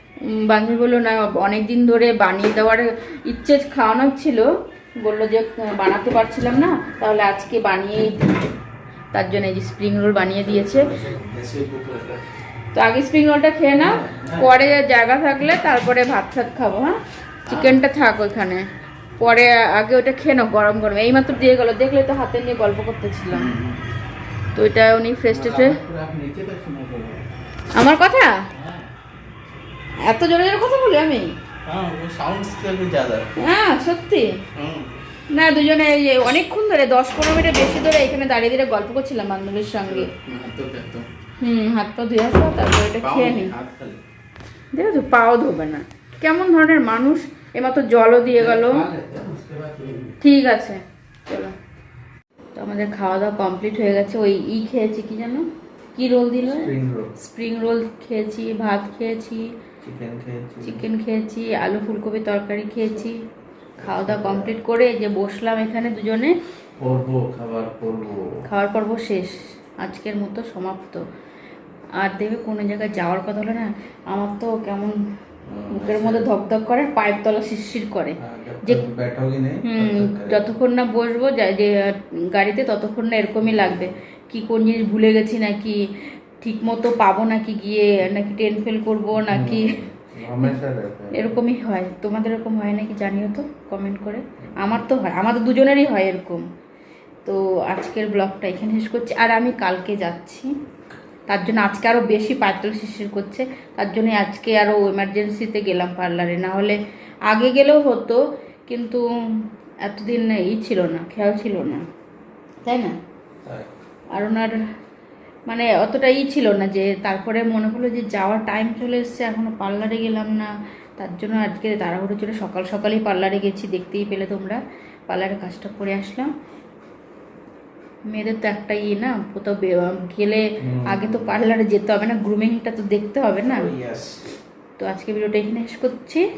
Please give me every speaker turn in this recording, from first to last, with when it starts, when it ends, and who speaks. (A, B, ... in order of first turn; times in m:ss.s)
0:00.2-0:08.5 A
0:09.1-0:10.9 A
0:10.5-0:12.2 B
0:12.7-0:17.0 A
0:13.7-0:14.5 B
0:17.5-0:17.8 B
0:17.5-0:18.7 A
0:19.2-0:23.5 A
0:23.3-0:23.8 B
0:24.6-0:25.8 A
0:25.3-0:27.3 B
0:27.8-0:28.4 A
0:28.6-0:28.9 B
0:30.0-0:31.3 A
0:31.7-0:33.3 B
0:33.4-0:34.3 A
0:34.6-0:34.9 B
0:35.3-0:40.1 A
0:39.9-0:41.1 B
0:41.4-0:43.5 A
0:43.0-0:44.0 B
0:44.7-0:48.8 A
0:48.3-0:50.2 B
0:50.2-0:51.5 A
0:52.5-0:59.5 A
0:56.4-0:57.1 B
0:59.8-1:00.9 B
1:00.6-1:03.2 A
1:03.8-1:06.4 A
1:03.8-1:04.6 B
1:06.8-1:08.4 B
1:08.5-1:11.0 A
1:12.0-1:15.0 A
1:15.5-1:16.3 B
1:15.7-1:18.8 A
1:18.2-1:20.5 B
1:19.6-1:25.8 A
1:23.6-1:23.9 B
1:26.4-1:29.8 A
1:29.2-1:31.3 B
1:31.1-1:36.4 A
1:37.2-1:40.5 A
1:41.3-1:46.8 A
1:47.3-1:49.0 A
1:49.8-1:51.8 A
1:52.6-1:53.0 A
1:53.4-1:53.7 B
1:54.1-1:54.6 A
1:55.5-2:06.3 A
2:08.1-2:13.7 A
2:10.6-2:11.4 B
2:13.4-2:14.3 B
2:14.8-2:16.3 A